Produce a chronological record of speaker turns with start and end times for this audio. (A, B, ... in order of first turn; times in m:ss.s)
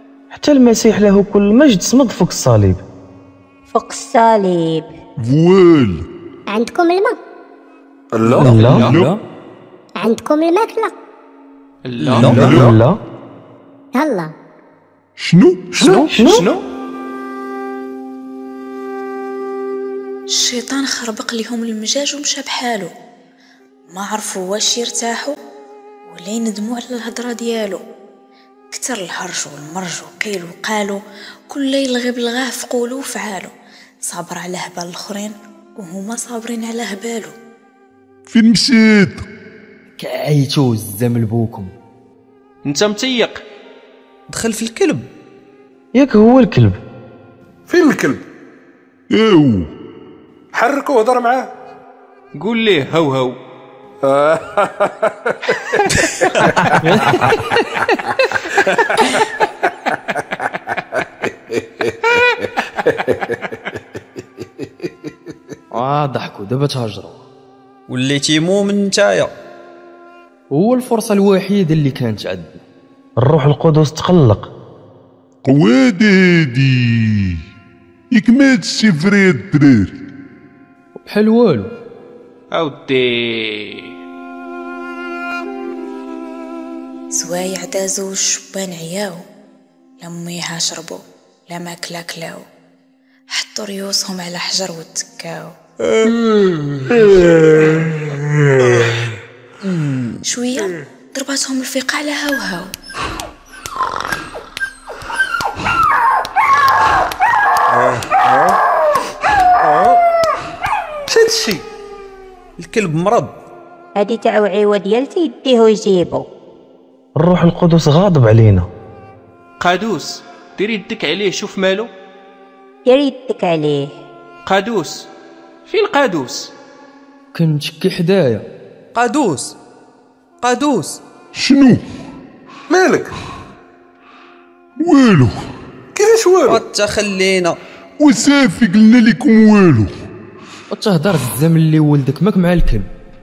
0:00.3-0:02.8 A
0:03.7-0:04.9 B
0:05.2-0:06.0 C
0:06.5-0:07.2 D
0:08.1-0:08.8 E
0:08.2-0:08.9 F
0:08.4-0:08.9 A
0:08.7-0:09.2 C
0:08.8-0:09.2 G
0:10.0-0:10.9 D
0:11.8-0:12.6 F
0:12.2-0:13.0 A
0:12.2-0:12.7 C
0:13.9-0:14.3 D
0:15.2-0:16.1 C
0:15.8-0:16.6 F
0:16.1-0:16.4 A
0:20.3-0:22.9 H
0:23.9-0:25.3 H
0:26.1-0:27.8 H
0:28.7-0:33.5 H
0:34.0-0:37.3 H
0:38.3-0:39.2 C
0:40.0-0:41.7 G
0:42.6-0:43.4 F
0:44.3-0:45.1 I
0:45.9-0:46.8 A
0:47.7-0:48.2 E
0:49.1-0:49.7 C
0:50.5-0:51.5 E
0:52.4-0:53.4 F
0:54.0-0:56.7 E
0:56.8-0:57.5 G
1:01.8-1:02.1 E
1:02.8-1:03.3 E
1:05.7-1:07.2 G
1:07.9-1:09.3 I
1:10.5-1:12.6 G
1:13.2-1:14.5 A
1:15.4-1:17.4 C
1:18.1-1:19.9 C
1:21.0-1:21.7 G
1:22.5-1:23.9 F
1:27.1-1:29.2 H
1:30.0-1:32.4 H
1:33.3-1:35.6 H
1:40.2-1:42.7 H
1:47.7-1:48.6 E
1:49.6-1:50.0 E
1:51.1-1:51.6 F
1:52.6-1:53.3 I
1:54.0-1:56.3 B
1:57.2-1:58.7 A
1:59.6-2:01.9 F
2:02.8-2:03.9 B
2:04.4-2:05.1 F
2:05.7-2:06.5 F
2:07.3-2:08.4 G
2:08.9-2:09.6 I
2:10.4-2:11.0 I
2:11.3-2:11.8 C
2:12.7-2:13.1 E
2:14.8-2:15.4 C
2:15.9-2:16.6 E
2:16.4-2:17.6 I
2:18.0-2:19.9 C
2:20.7-2:22.9 G